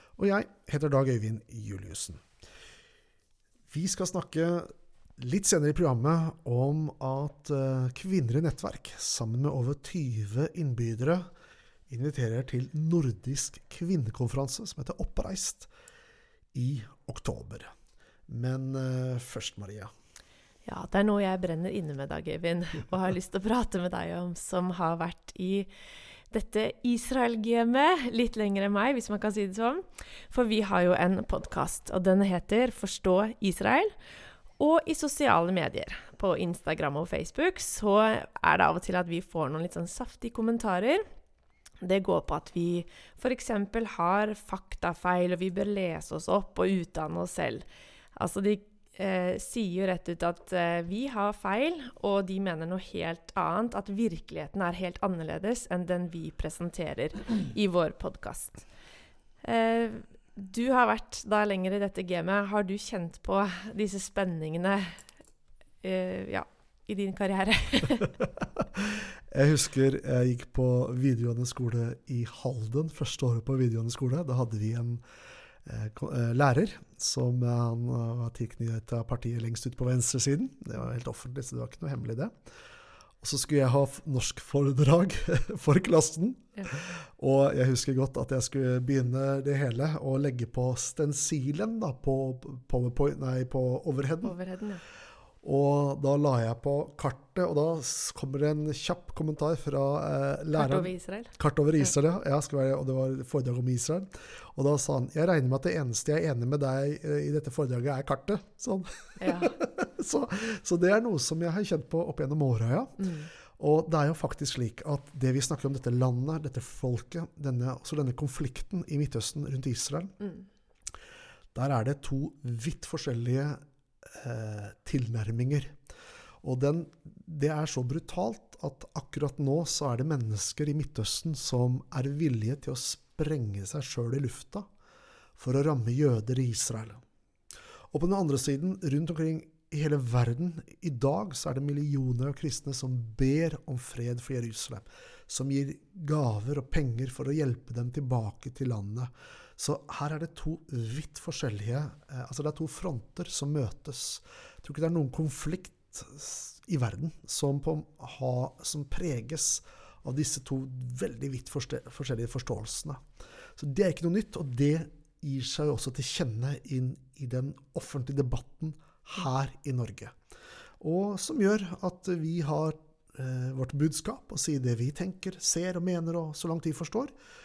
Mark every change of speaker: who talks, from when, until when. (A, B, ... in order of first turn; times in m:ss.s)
0:00.2-0:02.2 A
0:03.7-0:11.3 A
0:11.9-0:15.7 A
0:16.5-0:17.7 A
0:18.3-0:19.9 A
0:20.6-0:25.7 B
0:26.3-0:33.9 B
0:34.6-0:41.0 B
0:41.8-0:47.6 B
0:48.2-0:58.6 B
0:59.4-1:05.0 B
1:05.8-1:08.1 B
1:08.7-1:15.0 A
1:15.6-1:22.3 A
1:23.2-1:34.4 A
1:34.2-1:34.8 B
1:35.4-2:00.2 A
1:40.5-1:41.3 B
1:49.2-1:49.5 B
1:53.0-1:53.3 B
2:01.5-2:05.8 A
2:06.4-2:14.6 A
2:15.4-2:17.0 A
2:17.9-2:43.0 A
2:43.6-2:50.1 A
2:50.8-2:57.1 A